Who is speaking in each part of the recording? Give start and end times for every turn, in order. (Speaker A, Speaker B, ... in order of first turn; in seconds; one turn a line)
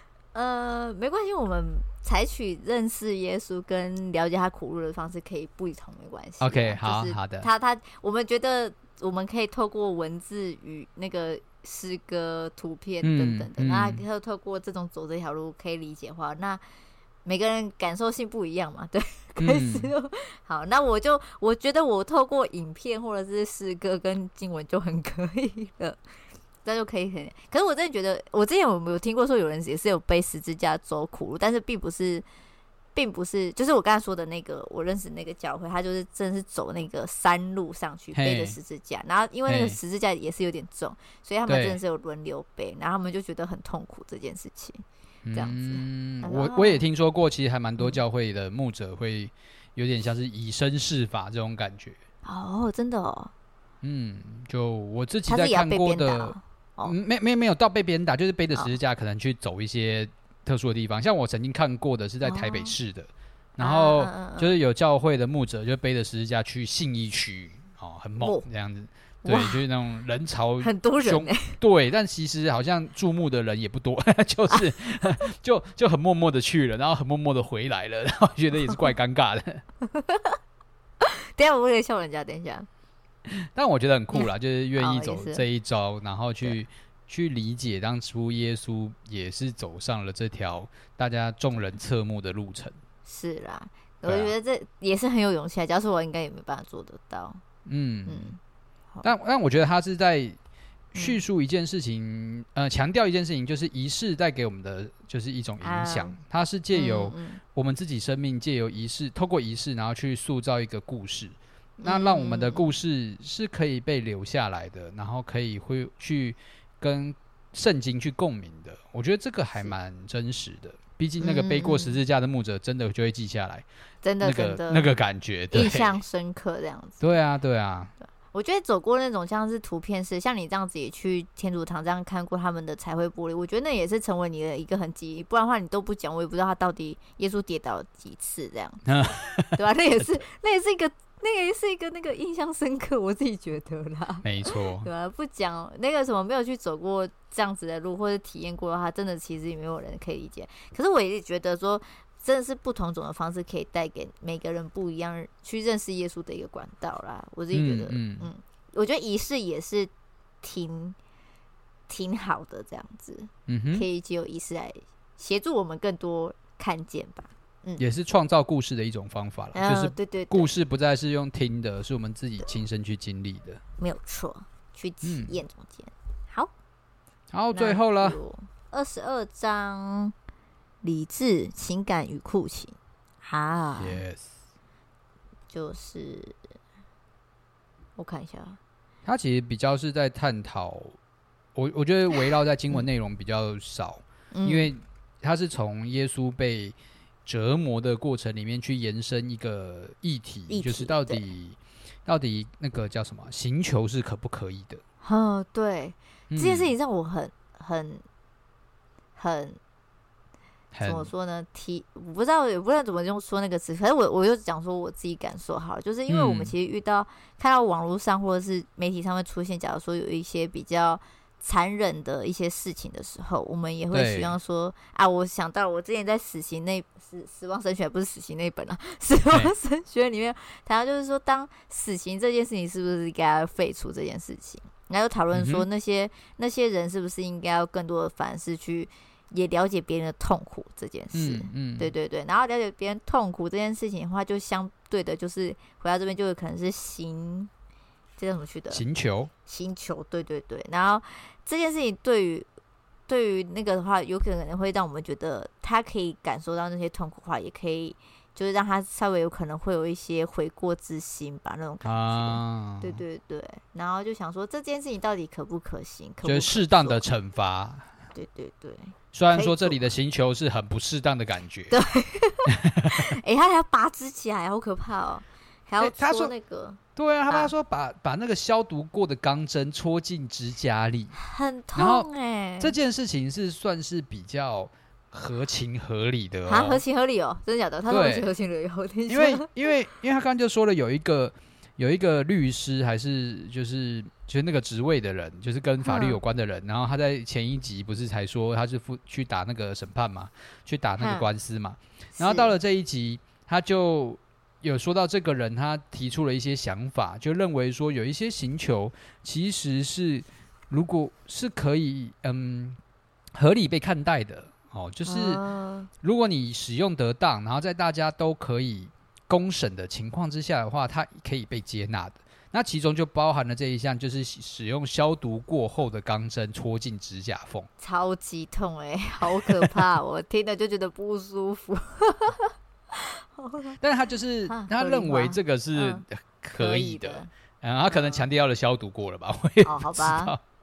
Speaker A: 0.3-16.6
Speaker B: 6.4-7.5
Speaker B: 13.0-14.0
Speaker A: 17.2-26.0
Speaker B: 19.4-19.9
Speaker A: 26.6-32.2
Speaker A: 33.0-46.9
Speaker B: 38.1-38.6
Speaker B: 39.5-39.8
Speaker B: 41.5-41.8
Speaker B: 45.3-52.0
Speaker A: 52.2-53.3
Speaker B: 53.8-79.6
Speaker A: 55.3-57.0
Speaker A: 62.2-62.8
Speaker A: 63.6-64.5
Speaker A: 68.2-68.5
Speaker A: 69.2-69.6
Speaker A: 70.6-71.6
Speaker A: 79.8-80.4
Speaker A: 81.0-82.7
Speaker B: 83.3-92.8
Speaker A: 84.1-85.4
Speaker A: 93.1-97.4
Speaker B: 94.0-94.3
Speaker B: 97.7-98.3
Speaker A: 98.1-98.4
Speaker B: 99.0-100.4
Speaker B: 100.9-123.7
Speaker A: 101.0-101.2
Speaker A: 105.6-106.2
Speaker A: 106.7-107.4
Speaker A: 111.8-112.7
Speaker A: 121.2-122.0
Speaker A: 124.0-124.9
Speaker B: 124.2-126.0
Speaker A: 125.5-127.1
Speaker B: 127.0-127.9
Speaker A: 128.2-138.9
Speaker B: 138.9-139.6
Speaker A: 139.5-159.9
Speaker B: 144.2-144.9
Speaker B: 157.5-158.3
Speaker A: 160.4-161.0
Speaker A: 161.9-167.8
Speaker B: 163.5-163.9
Speaker B: 167.8-173.6
Speaker A: 169.5-170.5
Speaker A: 173.8-176.5
Speaker B: 175.0-175.4
Speaker B: 177.3-178.2
Speaker A: 177.5-180.1
Speaker A: 180.8-184.0
Speaker B: 183.8-184.3
Speaker A: 185.5-186.4
Speaker A: 188.0-188.6
Speaker B: 189.1-191.0
Speaker B: 191.6-204.8
Speaker A: 194.3-194.7
Speaker A: 200.5-201.2
Speaker A: 205.0-208.0
Speaker B: 206.3-206.8
Speaker A: 209.2-209.6
Speaker B: 210.7-211.1
Speaker A: 210.8-247.5
Speaker B: 216.1-216.5
Speaker B: 223.9-224.3
Speaker B: 235.3-235.7
Speaker B: 241.1-241.9
Speaker A: 248.2-248.8
Speaker B: 248.7-249.3
Speaker A: 249.5-252.5
Speaker A: 253.1-267.0
Speaker B: 261.8-263.0
Speaker B: 266.2-267.9
Speaker A: 268.1-269.8
Speaker B: 269.1-271.8
Speaker A: 271.7-277.5
Speaker B: 272.5-273.0
Speaker B: 275.8-276.3
Speaker B: 277.0-281.2
Speaker A: 281.1-282.8
Speaker B: 281.8-282.1
Speaker B: 282.6-286.8
Speaker A: 286.5-289.7
Speaker B: 287.9-288.3
Speaker B: 289.1-312.8
Speaker A: 295.8-296.2
Speaker A: 301.0-301.3
Speaker A: 302.2-302.5
Speaker B: 313.4-315.4
Speaker A: 315.1-315.9
Speaker B: 316.0-327.7
Speaker A: 327.8-333.8
Speaker B: 329.2-329.8
Speaker B: 333.8-340.4
Speaker A: 334.5-336.0
Speaker A: 336.6-337.3
Speaker A: 337.9-338.2
Speaker A: 339.6-340.4